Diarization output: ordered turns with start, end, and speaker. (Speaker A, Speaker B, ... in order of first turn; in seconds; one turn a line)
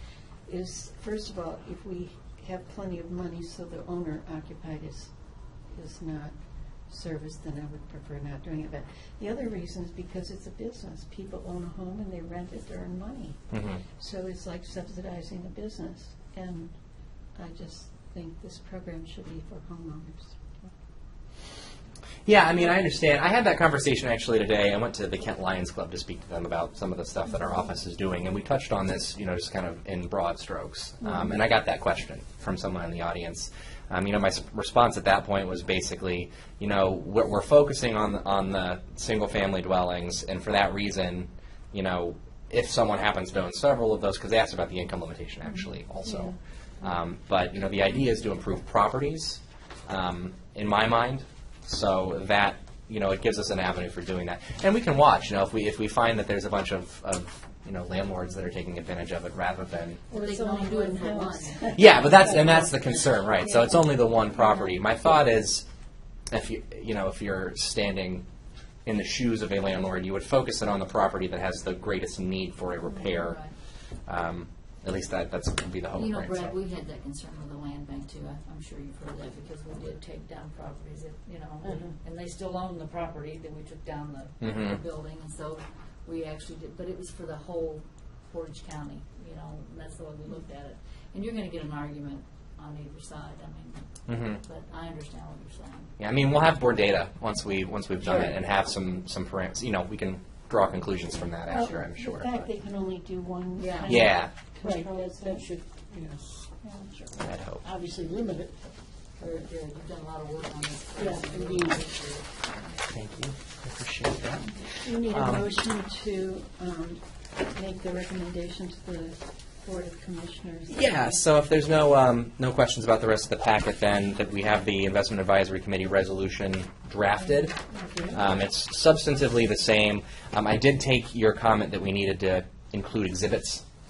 Speaker A: 0.5-5.1
Speaker A: 5.7-6.3
Speaker A: 6.9-13.4
Speaker B: 13.5-13.8
Speaker A: 14.0-16.7
Speaker A: 17.4-20.4
Speaker B: 22.2-60.0
Speaker A: 60.1-63.9
Speaker C: 60.1-61.8
Speaker B: 61.8-65.7
Speaker B: 66.3-68.2
Speaker B: 68.8-73.4
Speaker C: 73.0-73.5
Speaker B: 74.0-76.6
Speaker C: 75.9-95.9
Speaker D: 81.6-81.9
Speaker B: 84.4-84.8
Speaker B: 94.1-94.4
Speaker B: 96.0-102.3
Speaker A: 101.5-105.5
Speaker C: 103.6-104.0
Speaker B: 103.8-104.3
Speaker D: 104.6-106.5
Speaker A: 106.6-107.2
Speaker B: 107.2-107.6
Speaker D: 107.6-108.7
Speaker D: 109.2-109.4
Speaker C: 109.2-112.8
Speaker D: 110.9-111.8
Speaker B: 112.9-115.5
Speaker A: 114.8-121.2
Speaker B: 120.7-127.6
Speaker D: 127.7-128.2
Speaker B: 128.1-133.6